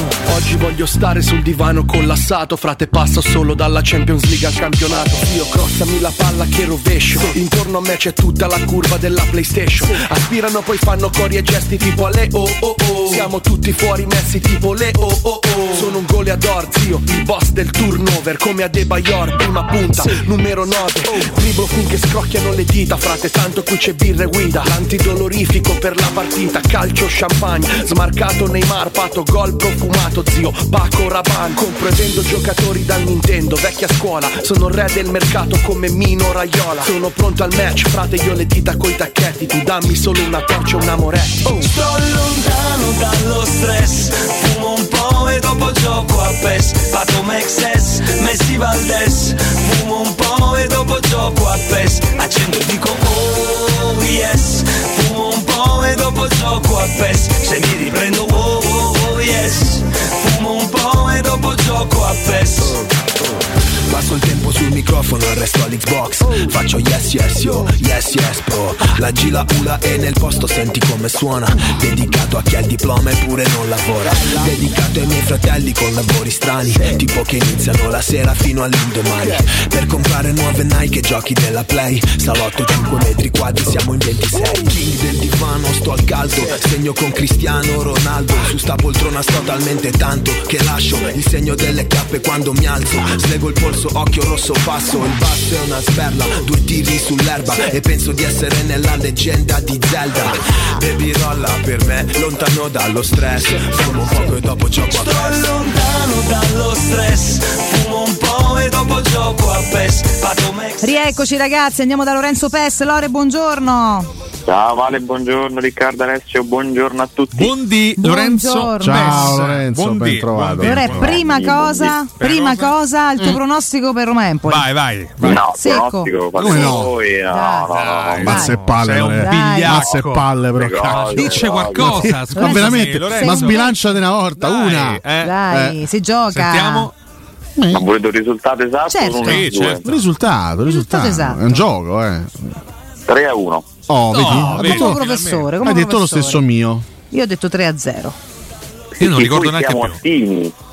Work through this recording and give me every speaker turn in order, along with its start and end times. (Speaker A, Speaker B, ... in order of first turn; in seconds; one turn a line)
Speaker A: 0.3-41.7
Speaker B: 41.6-62.7
Speaker C: 63.9-105.5
Speaker B: 105.0-111.0
Speaker D: 110.8-114.1
Speaker E: 114.5-117.5
Speaker F: 117.3-121.2
Speaker D: 118.0-119.3
Speaker G: 118.8-121.2
Speaker D: 120.6-124.7
Speaker E: 121.2-122.0
Speaker F: 122.2-122.8
Speaker F: 124.5-125.5
Speaker E: 125.2-128.4
Speaker D: 125.3-128.6
Speaker G: 126.4-127.0
Speaker F: 126.5-126.8
Speaker F: 127.7-130.3
Speaker G: 128.2-135.8
Speaker D: 129.2-129.9
Speaker E: 130.6-132.1
Speaker F: 130.8-133.7
Speaker D: 132.3-134.0
Speaker F: 134.4-135.3
Speaker D: 135.2-136.9
Speaker F: 136.3-136.9
Speaker G: 137.6-137.9
Speaker E: 137.7-139.8
Speaker D: 138.9-139.5
Speaker F: 139.2-140.0
Speaker G: 139.8-142.6
Speaker D: 140.7-141.6
Speaker E: 143.1-143.7
Speaker G: 143.9-145.0
Speaker F: 144.1-145.5
Speaker D: 144.3-146.4
Speaker G: 145.6-146.9
Speaker D: 147.1-148.2
Speaker E: 149.0-150.5
Speaker F: 149.0-150.0